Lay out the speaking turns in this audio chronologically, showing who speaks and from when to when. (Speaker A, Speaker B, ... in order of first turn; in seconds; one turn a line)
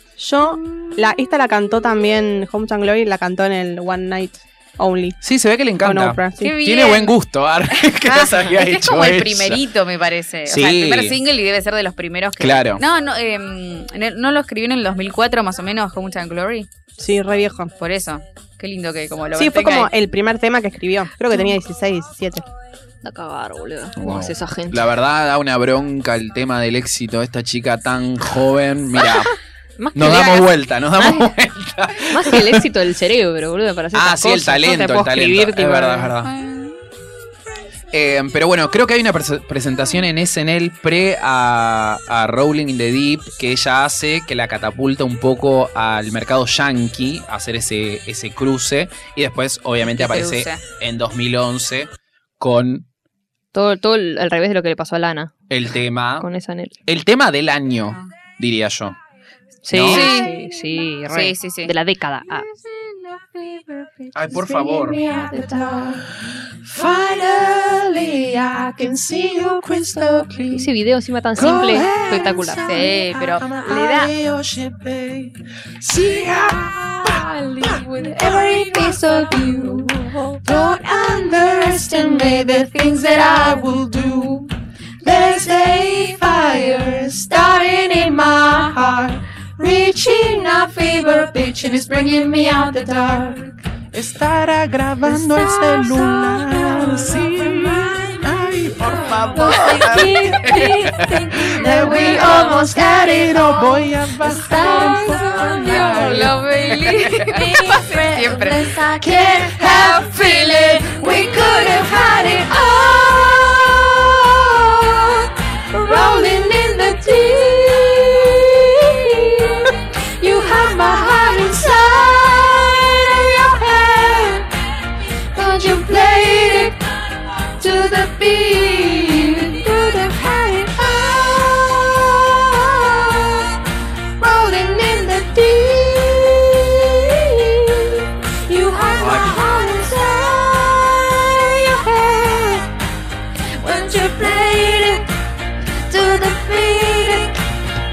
Speaker A: 0.2-5.2
Speaker B: 5.2-9.6
Speaker A: 5.8-6.5
Speaker C: 6.4-7.2
Speaker C: 7.7-16.7
Speaker B: 10.5-11.2
Speaker B: 12.4-12.8
Speaker A: 17.0-17.7
Speaker C: 17.8-19.9
Speaker A: 19.3-22.4
Speaker D: 23.0-24.9
Speaker B: 24.0-29.4
Speaker D: 29.8-31.3
Speaker B: 29.9-32.7
Speaker D: 32.1-36.1
Speaker B: 33.9-36.3
Speaker C: 36.2-36.8
Speaker B: 37.9-52.9
Speaker C: 50.0-50.6
Speaker D: 53.5-55.3
Speaker B: 55.5-56.3
Speaker D: 56.2-56.8
Speaker B: 56.9-59.0
Speaker D: 59.6-62.5
Speaker B: 59.7-60.1
Speaker C: 59.9-60.3
Speaker C: 61.1-61.7
Speaker E: 62.8-70.7
Speaker B: 64.1-65.0
Speaker D: 70.5-72.7
Speaker E: 71.4-84.5
Speaker C: 72.7-74.1
Speaker E: 85.0-94.3
Speaker B: 93.9-101.9
Speaker E: 95.0-106.4
Speaker B: 103.3-104.5
Speaker B: 105.7-106.2
Speaker C: 105.8-108.7
Speaker B: 106.7-107.0
Speaker E: 107.2-124.5
Speaker E: 125.3-126.8
Speaker E: 127.6-133.6
Speaker E: 134.2-142.7
Speaker B: 139.0-139.4
Speaker E: 143.6-145.1
Speaker E: 145.9-147.4